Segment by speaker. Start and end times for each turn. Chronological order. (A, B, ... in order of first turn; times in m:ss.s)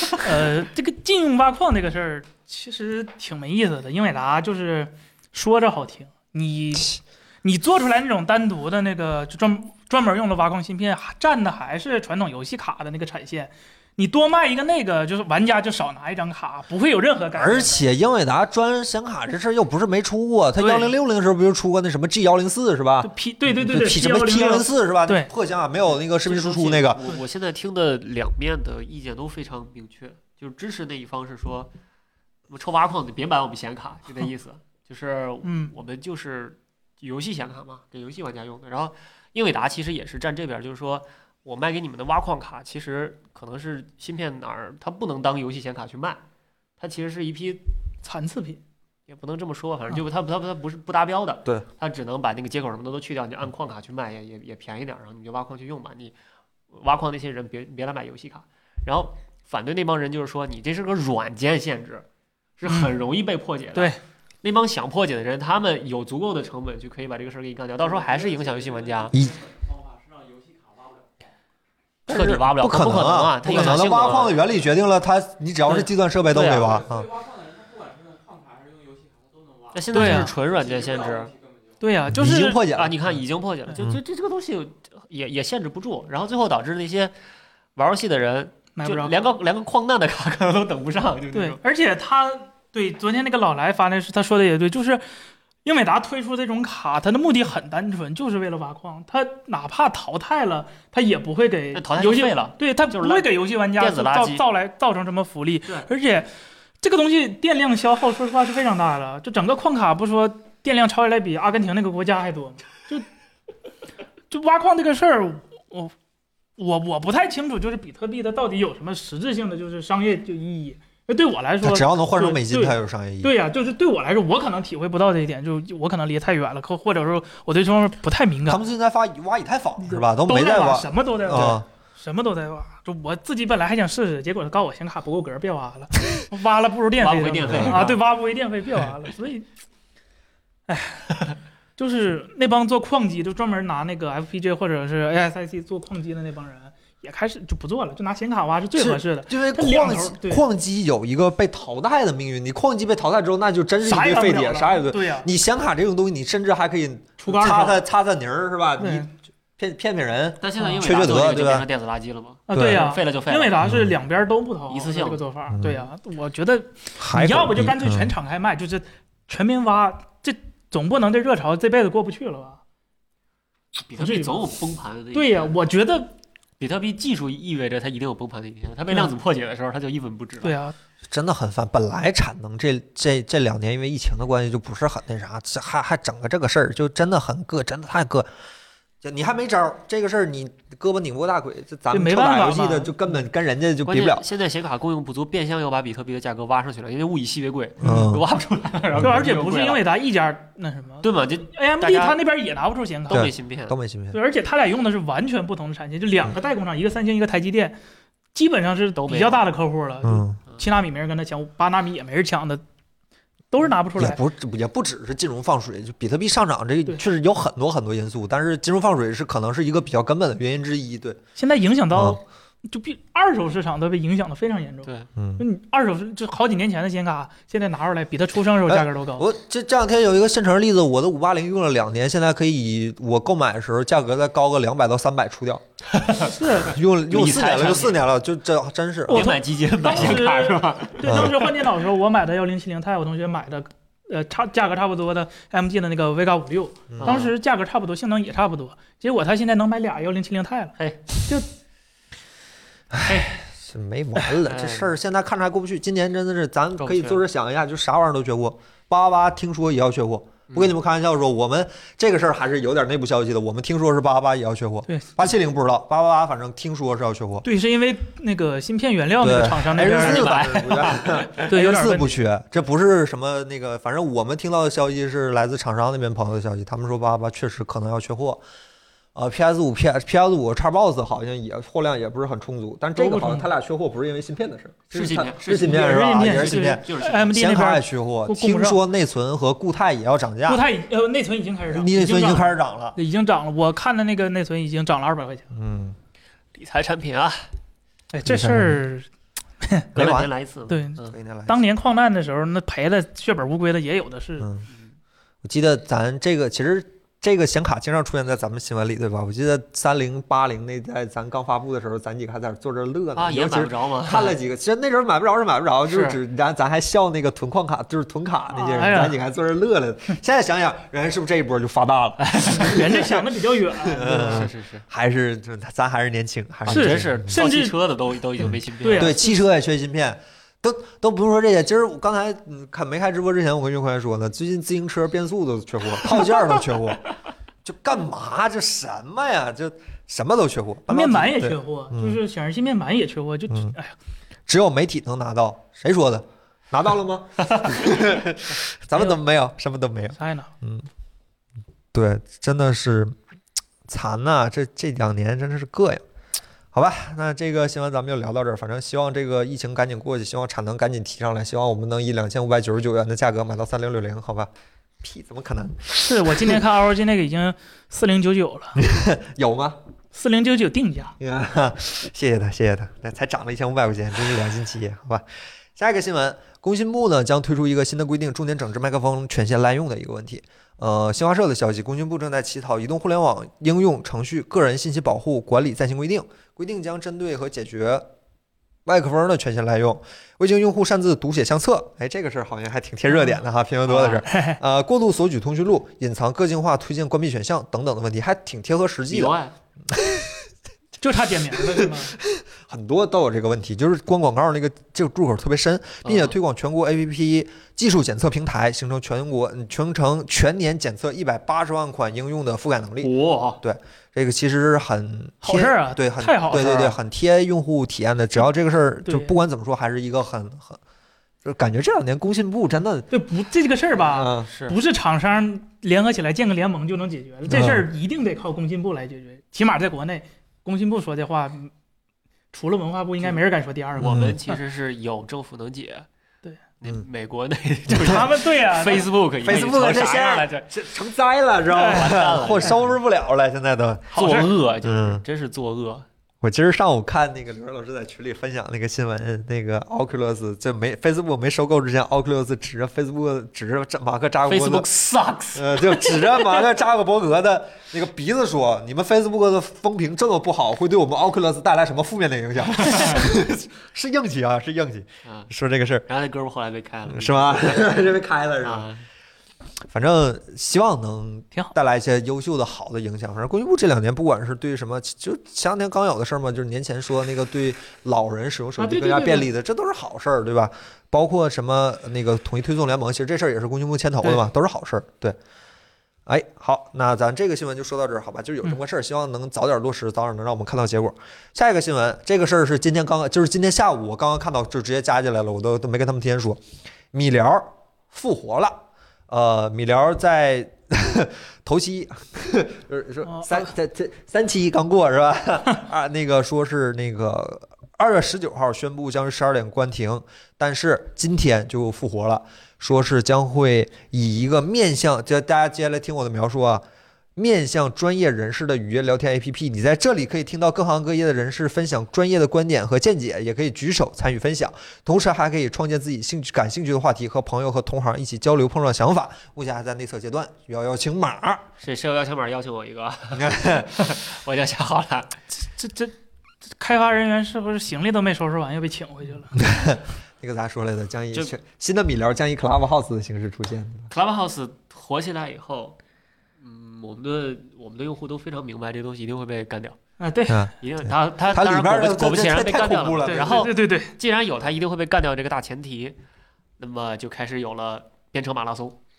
0:00.2-0:17.8 A
0:17.3-0:27.0 B
0:20.6-0:20.9 A
0:23.0-0:25.3 A
0:25.8-0:31.7 C
0:32.5-0:46.2 C
0:35.4-0:35.7 A
0:46.8-0:47.6 C
0:48.0-0:48.6 A
0:49.1-0:56.1 C
0:56.7-1:02.0 C
1:02.6-1:09.2 C
1:03.7-1:04.0 A
1:07.8-1:11.3 D
1:12.1-1:17.1 B
1:12.1-1:14.4 C
1:13.8-1:14.4 D
1:15.6-1:16.8 C
1:16.4-1:22.1 D
1:19.7-1:21.3 C
1:19.9-1:20.3 A
1:21.8-1:22.6 A
1:22.1-1:23.2 B
1:22.7-1:27.1 C
1:27.8-1:31.6 C
1:28.8-1:29.2 A
1:31.3-1:35.0 A
1:35.6-1:46.3 A
1:41.7-1:44.4 C
1:46.8-1:53.0 A
1:54.3-1:55.9 A
1:56.6-2:08.6 A
2:01.6-2:03.3 B
2:08.4-2:11.6 B
2:09.8-2:19.4 A
2:17.0-2:18.0 C
2:17.5-2:17.9 B
2:20.7-2:30.4 A
2:28.8-2:41.6 B
2:33.8-2:35.3 A
2:37.2-2:37.8 A
2:38.8-2:39.1 A
2:40.4-2:43.6 C
2:42.5-2:52.6 A
2:42.5-2:42.8 B
2:43.6-2:44.0 B
2:44.7-2:45.2 C
2:45.5-2:45.9 B
2:47.0-2:48.1 B
2:53.8-2:55.5 C
2:54.0-2:54.5 A
2:55.1-2:56.1 A
2:56.6-3:00.6 C
3:00.4-3:00.7 A
3:01.1-3:08.3 B
3:09.0-3:14.2 B
3:11.9-3:13.0 A
3:13.8-3:19.8 C
3:17.8-3:18.2 B
3:18.9-3:23.3 A
3:19.0-3:19.3 B
3:21.0-3:22.2 C
3:23.1-3:23.7 C
3:23.1-3:24.2 B
3:24.1-3:27.8 A
3:28.3-3:32.6 A
3:29.0-3:29.4 C
3:30.0-3:30.4 B
3:33.5-3:34.2 A
3:34.0-3:41.2 B
3:41.4-3:49.2 A
3:41.9-3:42.2 B
3:45.2-3:45.4 B
3:48.6-3:55.6 B
3:55.9-3:56.4 C
3:56.3-3:56.7 A
3:56.6-3:59.3 B
3:57.1-3:58.0 C
3:59.1-4:11.5 A
3:59.1-4:01.5 C
4:01.0-4:01.4 B
4:06.9-4:07.2 B
4:07.0-4:07.3 C
4:10.8-4:11.0 C
4:12.9-4:27.4 B
4:13.0-4:13.4 C
4:14.4-4:14.9 C
4:16.8-4:17.2 C
4:24.9-4:25.2 A
4:27.4-4:30.8 A
4:29.2-4:38.4 B
4:29.8-4:31.5 C
4:31.4-4:32.2 A
4:39.1-4:50.6 B
4:43.0-4:43.5 A
4:44.9-4:47.3 C
4:45.5-4:48.8 A
4:50.4-4:55.5 A
4:51.7-4:53.0 B
4:55.5-4:56.0 B
4:56.5-4:57.5 C
4:58.1-4:59.1 A
4:58.2-4:58.8 B
4:59.6-4:59.9 A
4:59.9-5:00.3 B
4:59.9-5:01.2 C
5:00.7-5:04.5 A
5:01.1-5:01.6 B
5:04.4-5:04.6 B
5:05.4-5:27.4 B
5:13.1-5:14.4 C
5:15.9-5:16.2 C
5:18.5-5:19.2 A
5:22.2-5:22.7 C
5:22.5-5:24.5 A
5:24.2-5:24.8 C
5:26.6-5:29.1 C
5:26.7-5:27.8 A
5:28.4-5:37.0 B
5:28.8-5:29.4 A
5:37.6-5:42.2 B
5:40.9-5:43.9 A
5:43.5-5:43.7 B
5:44.5-5:50.9 B
5:50.2-5:50.5 A
5:51.9-5:53.1 B
5:53.9-5:56.0 B
5:56.7-6:04.5 B
6:05.0-6:06.6 B
6:06.0-6:08.8 A
6:08.8-6:09.8 B
6:10.1-6:11.2 A
6:11.2-6:15.2 B
6:15.8-6:28.1 B
6:28.8-6:39.4 B
6:33.1-6:33.4 A
6:33.9-6:34.2 C
6:34.2-6:34.6 A
6:39.1-6:39.5 C
6:39.9-6:40.4 B
6:41.0-6:42.2 A
6:41.5-7:00.8 B
6:46.0-6:46.4 C
6:53.0-6:53.6 C
6:55.4-6:57.0 A
6:59.0-6:59.3 A
7:01.4-7:03.1 B
7:03.1-7:11.7 A
7:04.0-7:04.5 B
7:04.5-7:04.8 C
7:07.5-7:07.9 B
7:12.5-7:14.6 A
7:14.0-7:14.4 B
7:14.0-7:16.1 C
7:16.8-7:20.7 C
7:17.9-7:19.1 A
7:17.9-7:18.3 B
7:19.4-7:25.2 B
7:21.7-7:22.8 A
7:21.8-7:22.9 C
7:24.1-7:26.1 C
7:26.4-7:34.9 B
7:34.4-7:36.6 C
7:35.5-7:46.1 B
7:42.9-7:43.2 C
7:45.2-7:45.5 C
7:46.1-7:48.0 C
7:47.1-7:48.9 B
7:48.6-7:49.0 C
7:49.9-8:05.4 B
7:58.8-7:59.5 A
8:06.2-8:36.8 B
8:23.2-8:23.7 A
8:37.4-8:51.6 B
8:51.8-8:55.4 C
8:53.3-8:53.9 B
8:55.6-8:56.1 A
8:56.8-8:59.6 A
8:59.5-9:04.1 B
9:04.1-9:06.0 C
9:06.6-9:10.0 C
9:10.2-9:10.7 A
9:10.5-9:13.7 B
9:10.8-9:16.2 C
9:13.2-9:14.1 A
9:16.8-9:19.0 C